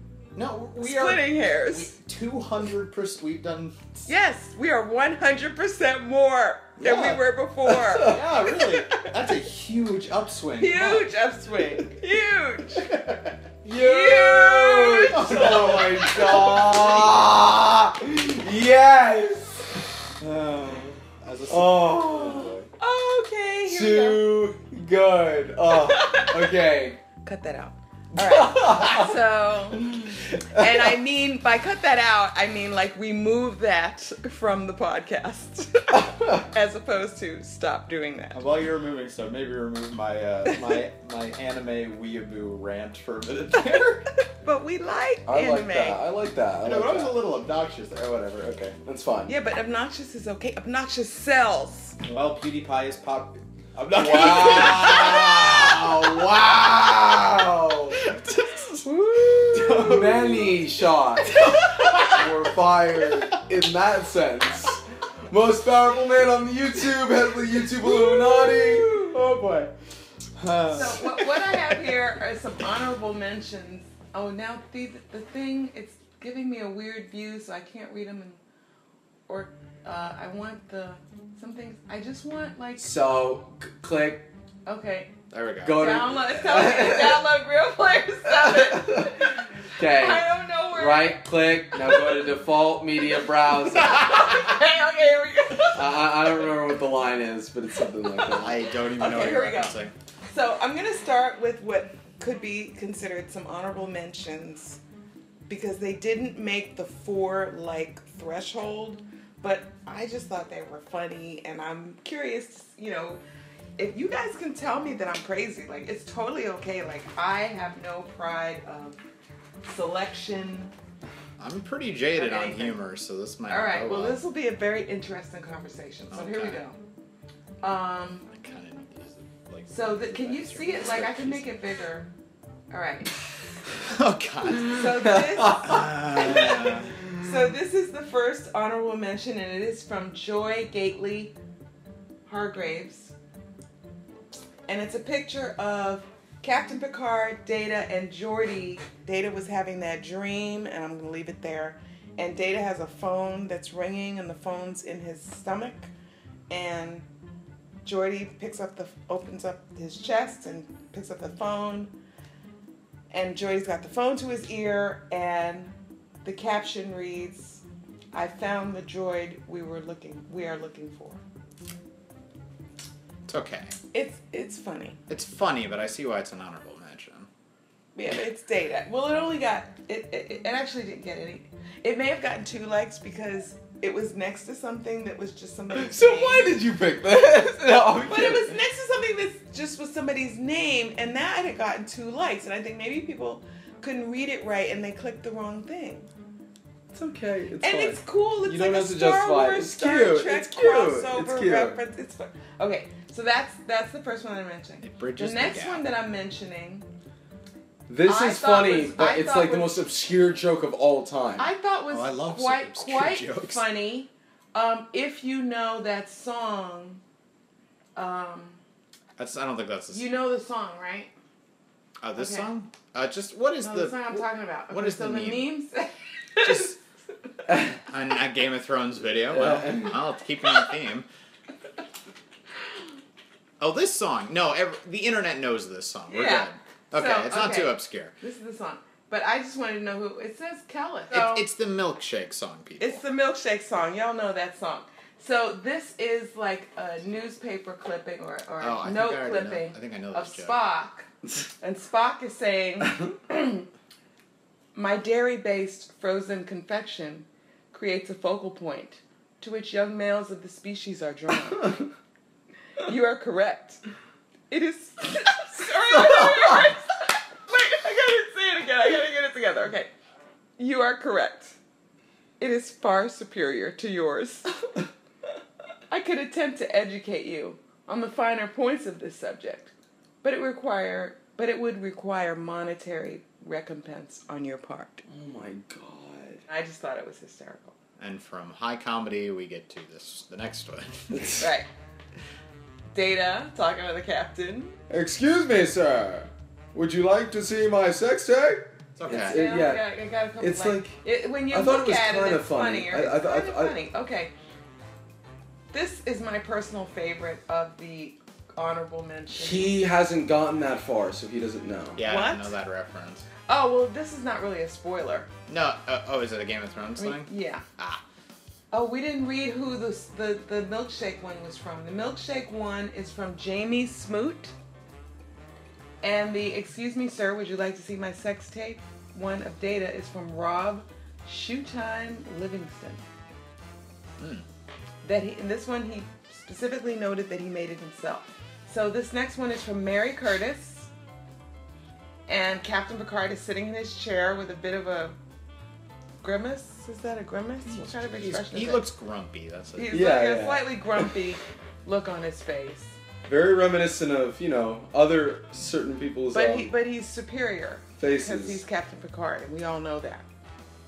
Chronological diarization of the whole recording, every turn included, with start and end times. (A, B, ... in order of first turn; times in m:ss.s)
0:00.4-0:04.1 A
0:00.8-0:01.9 B
0:04.1-0:08.2 B
0:06.8-0:07.2 A
0:07.7-0:08.4 C
0:07.9-0:11.1 A
0:10.6-0:12.9 B
0:12.8-0:13.3 A
0:13.6-0:19.8 C
0:13.7-0:15.4 B
0:15.0-0:17.4 A
0:20.2-0:22.7 A
0:21.5-0:22.6 C
0:22.8-0:24.3 B
0:23.7-0:27.0 C
0:25.9-0:26.4 B
0:27.2-0:38.4 B
0:28.2-0:29.1 C
0:38.3-0:44.0 A
0:44.4-0:46.0 B
0:45.3-0:47.2 C
0:46.6-0:48.8 A
0:48.8-0:49.3 C
0:49.3-0:52.0 B
0:52.1-1:00.6 A
0:53.9-0:58.0 C
0:58.9-0:59.9 B
0:59.5-1:09.0 C
1:01.3-1:02.3 A
1:07.8-1:09.7 A
1:10.4-1:11.8 A
1:10.7-1:18.4 B
1:19.3-1:22.9 B
1:22.8-1:24.3 C
1:24.7-1:25.1 B
1:25.3-1:26.1 A
1:25.6-1:27.2 C
1:25.7-1:31.2 B
1:28.3-1:34.1 C
1:31.8-1:32.2 B
1:33.8-1:36.2 B
1:35.8-1:38.6 C
1:38.0-1:39.8 B
1:38.3-1:39.9 A
1:40.3-1:44.8 B
1:45.5-1:53.2 B
1:53.8-1:59.0 B
1:59.6-2:00.7 B
2:01.4-2:04.2 A
2:02.2-2:02.8 B
2:03.5-2:06.8 B
2:06.1-2:06.6 A
2:07.6-2:08.3 B
2:08.3-2:11.5 A
2:09.7-2:12.1 B
2:12.7-2:13.2 B
2:13.8-2:16.9 A
2:14.5-2:21.3 B
2:15.3-2:15.8 C
2:22.3-2:23.2 B
2:24.7-2:35.9 B
2:36.5-2:37.1 B
2:37.8-2:41.9 B
2:43.1-2:45.7 B
2:46.2-2:51.2 B
2:53.3-2:53.8 A
2:53.9-2:55.0 B
2:55.1-2:57.3 A
2:58.0-3:06.6 B
3:05.7-3:08.6 C
3:08.0-3:16.1 B
3:16.9-3:21.8 C
3:17.6-3:26.9 B
3:24.8-3:25.8 A
3:27.9-3:31.5 C
3:28.0-3:29.8 B
3:31.4-3:37.0 B
3:31.9-3:33.6 A
3:38.0-3:38.6 B
3:39.2-3:40.1 A
3:39.9-3:41.1 B
3:42.0-3:45.5 A
3:42.2-3:42.5 B
3:43.6-3:46.7 B
3:46.4-3:46.8 A
3:47.9-3:51.1 A
3:49.3-3:50.0 C
3:53.6-3:58.2 A
3:56.1-4:01.4 B
4:01.1-4:03.0 A
4:02.8-4:11.1 B
4:08.6-4:10.6 A
4:11.6-4:13.7 B
4:14.8-4:21.9 B
4:22.8-4:23.8 B
4:24.5-4:29.9 B
4:30.6-4:31.6 B
4:32.4-4:34.5 B
4:35.9-4:45.0 B
4:45.1-4:46.4 C
4:46.5-4:47.7 B
4:48.0-4:51.5 A
4:51.4-4:51.7 B
4:52.9-4:54.8 B
4:54.9-4:59.9 C
4:59.0-4:59.4 A
4:59.1-5:04.3 B
5:00.4-5:01.0 C
5:01.5-5:03.8 C
5:05.7-5:09.8 B
5:09.4-5:12.0 C
5:12.0-5:13.3 A
5:12.0-5:12.5 B
5:13.5-5:15.3 B
5:15.5-5:18.0 A
5:17.0-5:17.6 B
5:18.7-5:24.5 B
5:26.0-5:33.0 B
5:34.2-5:34.4 A
5:35.0-5:40.9 B
5:42.3-5:45.2 B
5:46.2-5:48.8 B
5:47.7-5:49.9 A
5:49.8-5:53.0 B
5:49.9-5:51.1 C
5:53.2-5:56.7 C
5:56.3-6:00.3 B
5:58.0-5:58.6 C